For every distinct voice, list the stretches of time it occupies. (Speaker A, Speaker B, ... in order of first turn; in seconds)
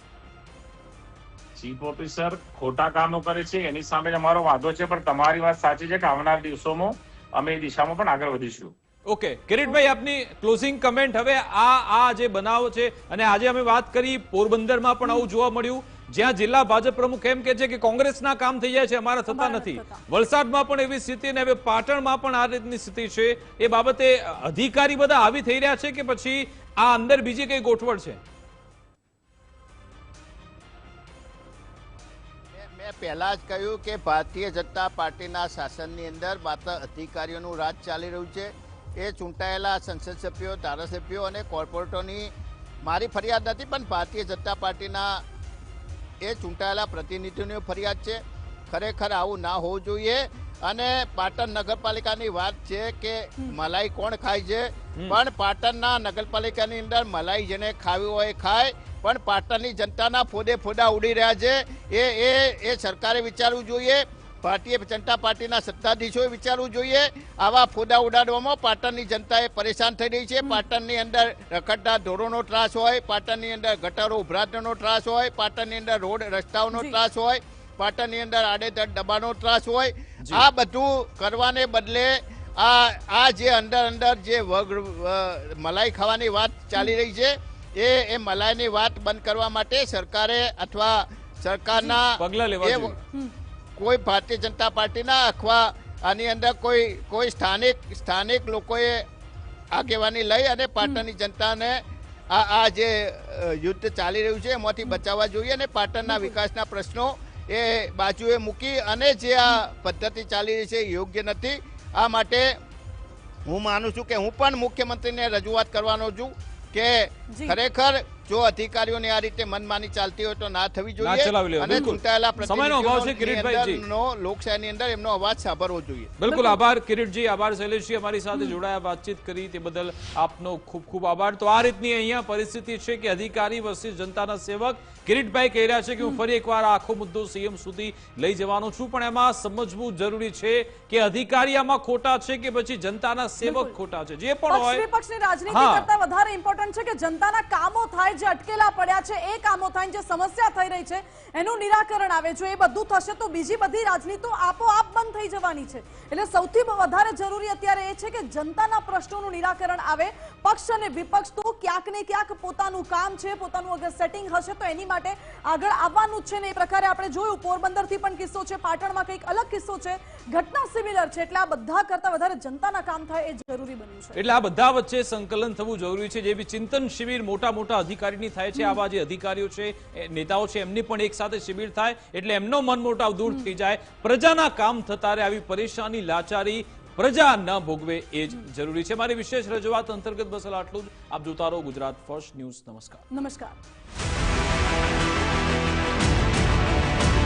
Speaker A: 1.6-8.7
Speaker B: 9.1-28.2, 92.2-93.0, 121.0-123.8, 126.2-144.8, 145.5-145.9, 174.2-193.1
Speaker C: 9.7-9.9, 19.3-20.0, 76.7-77.0, 106.1-106.3, 117.3-117.6, 121.7-122.0, 126.3-126.6, 143.4-143.7, 144.5-174.2, 178.6-178.8, 193.1-193.6
Speaker D: 32.5-42.3, 42.8-45.2, 46.2-93.0, 93.8-99.0, 99.7-112.5, 113.5-126.1